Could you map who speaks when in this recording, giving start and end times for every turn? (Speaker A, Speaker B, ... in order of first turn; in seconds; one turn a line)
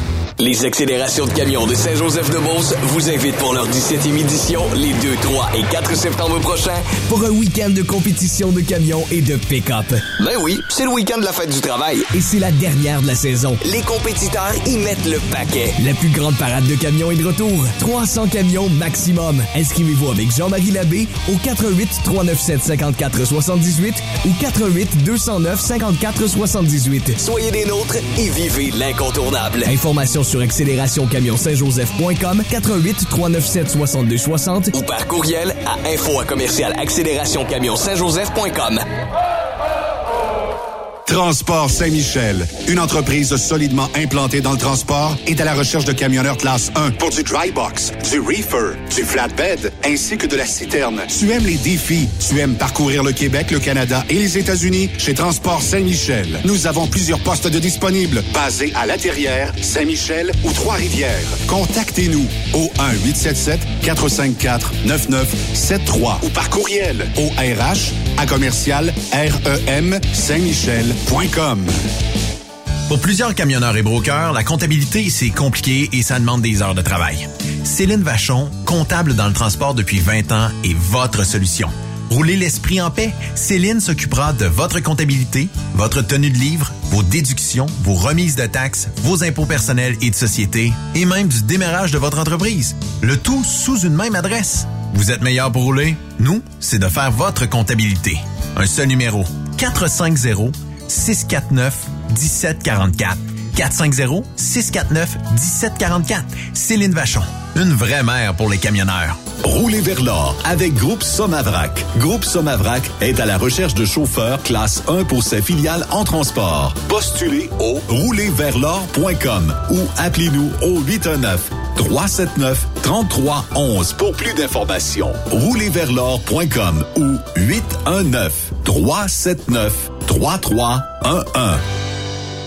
Speaker A: 0.4-7.0
Speaker B: 7.0-10.0
Speaker A: 10.2-12.1
Speaker B: 12.1-13.6
Speaker A: 13.6-15.7
Speaker B: 15.8-27.2
Speaker A: 27.2-29.7
Speaker B: 29.6-34.7
Speaker A: 34.7-38.8
Speaker C: 41.0-71.7
Speaker D: 72.9-109.2
Speaker E: 109.4-131.6